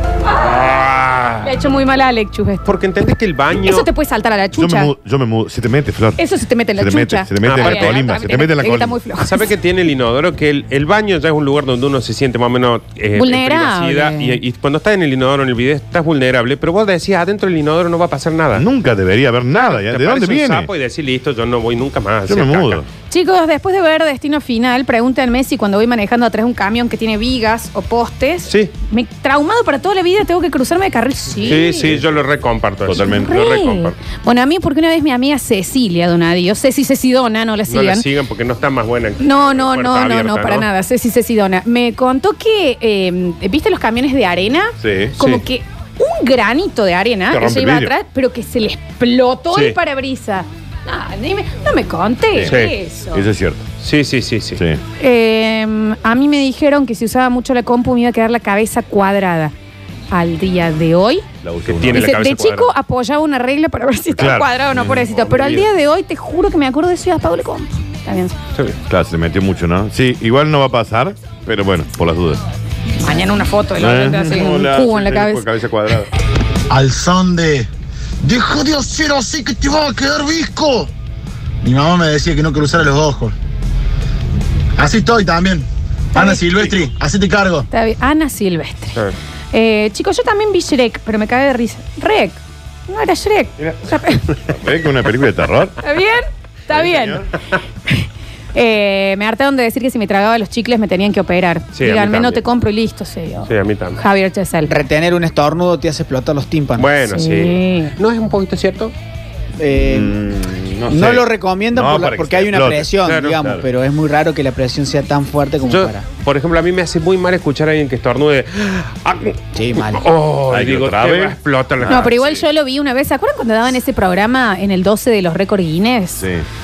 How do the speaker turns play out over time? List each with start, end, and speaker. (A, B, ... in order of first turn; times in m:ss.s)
0:00.2-0:00.7 A
0:00.4-0:01.8 B
0:01.4-0:02.8 A
0:02.6-0:03.9 B
0:03.5-0:04.9 A
0:04.5-0:09.0 C
0:06.2-0:09.4 A
0:07.4-0:08.0 B
0:09.2-0:18.6 B
0:13.2-0:14.4 A
0:18.5-0:20.7 C
0:19.5-0:22.8 B
0:22.2-0:22.8 C
0:23.1-0:31.9 A
0:31.4-0:34.0 B
0:31.5-0:32.2 C
0:32.8-0:33.4 C
0:32.9-0:38.0 A
0:37.7-0:40.6 B
0:39.2-0:53.2 A
0:44.8-0:45.1 C
0:47.3-0:47.9 C
0:49.5-0:49.8 B
0:52.3-0:53.6 C
0:52.4-0:52.7 B
0:53.8-0:54.6 B
0:54.5-0:54.8 C
0:55.0-0:59.5 A
1:00.1-1:01.2 A
1:01.4-1:02.2 C
1:01.7-1:02.7 B
1:01.9-1:08.3 A
1:04.1-1:05.0 C
1:04.8-1:05.7 B
1:08.9-1:12.4 C
1:13.0-1:15.5 A
1:13.8-1:16.1 C
1:16.7-1:17.7 D
1:18.2-1:20.9 D
1:21.6-1:23.3 D
1:24.8-1:27.7 D
1:26.1-1:26.5 A
1:27.7-1:29.0 A
1:29.5-1:34.3 A
1:33.6-1:35.8 C
1:35.8-1:37.2 A
1:36.7-1:37.3 C
1:37.9-1:44.8 A
1:41.7-1:42.4 B
1:43.4-1:44.0 B
1:44.7-1:46.9 E
1:46.8-1:48.9 B
1:47.1-1:48.0 A
1:49.6-1:50.1 E
1:49.7-1:53.7 C
1:50.9-1:56.0 E
1:53.0-1:53.4 B
1:55.6-2:02.4 B
1:59.6-2:00.0 E
2:00.5-2:02.2 C
2:01.8-2:06.2 A
2:06.2-2:06.4 C